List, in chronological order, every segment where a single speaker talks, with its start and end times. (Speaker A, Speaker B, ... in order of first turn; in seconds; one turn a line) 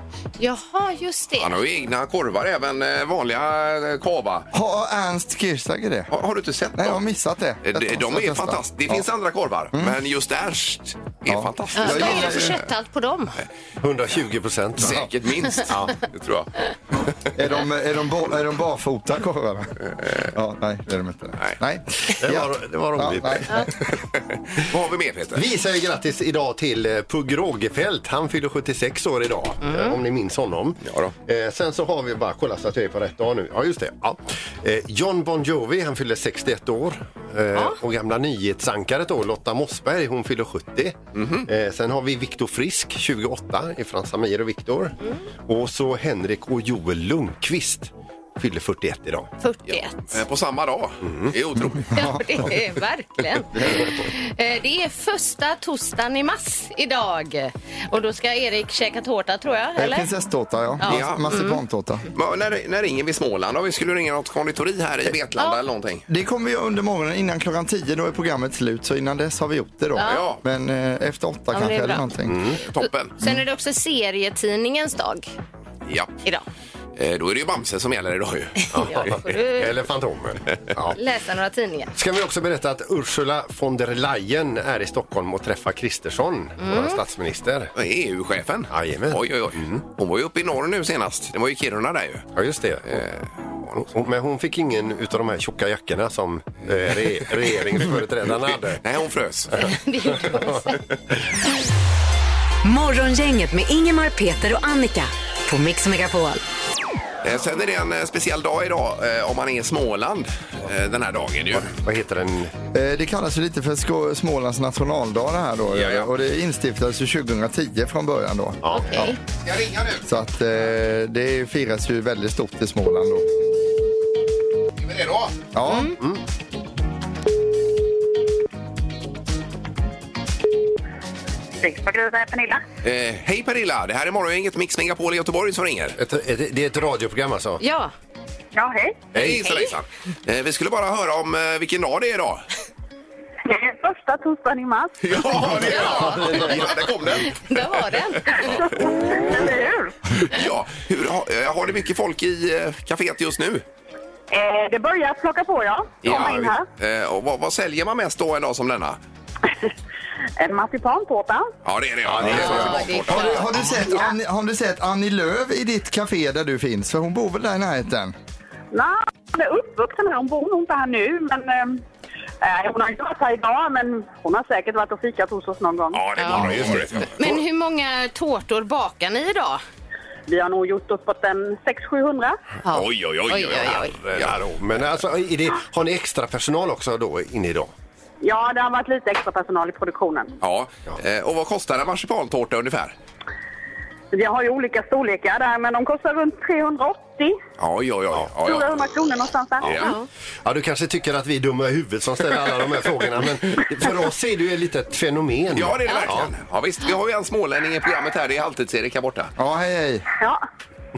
Speaker A: 0.4-1.5
Speaker B: 1.4-4.5
Speaker C: 4.5-6.1
Speaker B: 6.1-7.0
Speaker C: 6.8-9.1
Speaker B: 7.6-12.6
Speaker C: 11.3-12.6
Speaker A: 11.8-13.4
Speaker D: 13.8-15.0
Speaker B: 14.8-16.5
Speaker D: 15.7-16.0
Speaker C: 17.3-23.7
Speaker B: 20.0-20.3
Speaker D: 22.2-23.7
Speaker B: 24.3-25.4
Speaker D: 25.3-45.0
Speaker A: 29.6-29.9
Speaker B: 30.9-31.1
Speaker B: 41.1-41.5
Speaker D: 45.5-49.3
Speaker A: 49.4-50.2
Speaker B: 49.7-51.9
Speaker D: 51.0-51.3
Speaker C: 51.9-52.4
Speaker A: 51.9-60.1
Speaker C: 59.8-62.1
Speaker A: 60.8-61.6
Speaker B: 60.9-61.3
Speaker B: 62.1-66.0
Speaker A: 65.4-65.6
Speaker C: 66.1-72.4
Speaker A: 70.0-70.3
Speaker B: 70.0-70.4
Speaker A: 71.5-72.1
Speaker D: 72.3-72.6
Speaker B: 72.7-73.2
Speaker A: 72.8-75.3
Speaker B: 75.9-76.2
Speaker B: 77.0-78.7
Speaker A: 78.6-79.7
Speaker D: 78.7-81.0
Speaker A: 80.9-81.9
Speaker D: 82.0-87.7
Speaker A: 86.6-87.0
Speaker B: 87.7-92.3
Speaker D: 88.7-89.8
Speaker D: 92.3-93.0
Speaker B: 92.9-93.8
Speaker D: 93.8-98.8
Speaker B: 98.8-99.5
Speaker A: 99.5-100.8
Speaker E: 102.6-106.4
Speaker B: 107.2-111.7
Speaker D: 111.7-112.5
Speaker C: 112.7-119.1
Speaker B: 115.7-116.1
Speaker D: 118.6-119.1
Speaker A: 118.7-119.2
Speaker B: 119.4-120.0
Speaker C: 120.0-123.2
Speaker B: 124.8-125.4
Speaker C: 125.5-125.9
Speaker A: 125.7-125.9
Speaker F: 131.6-132.6
Speaker B: 132.8-136.0
Speaker D: 136.0-137.6
Speaker A: 137.6-137.9
Speaker F: 138.5-139.0
Speaker D: 139.1-139.4
Speaker B: 139.1-142.4
Speaker A: 139.4-139.7
Speaker F: 143.4-145.0
Speaker B: 145.0-147.8
Speaker A: 145.6-146.6
Speaker C: 146.2-146.5
Speaker A: 147.2-148.5
Speaker B: 148.3-149.5
Speaker F: 148.4-149.9
Speaker B: 150.2-153.6
Speaker F: 154.3-156.7
Speaker B: 156.0-159.0
Speaker F: 160.4-161.5
Speaker B: 161.6-163.5
Speaker D: 162.1-162.9
Speaker A: 162.2-164.0
Speaker C: 162.3-168.1
Speaker F: 168.7-171.8
Speaker F: 172.4-176.1
Speaker B: 175.9-177.4
Speaker A: 176.2-179.6
Speaker D: 176.3-176.9
Speaker F: 180.3-182.4
Speaker A: 182.6-183.9
Speaker B: 182.7-184.4
Speaker D: 184.0-187.7
Speaker F: 188.2-190.3
Speaker B: 190.4-192.9
Speaker F: 194.1-197.4
Speaker B: 197.6-199.9
Speaker F: 198.4-199.9
Speaker A: 199.8-200.1
Speaker D: 200.4-206.3
Speaker B: 205.5-209.3
Speaker C: 209.4-210.1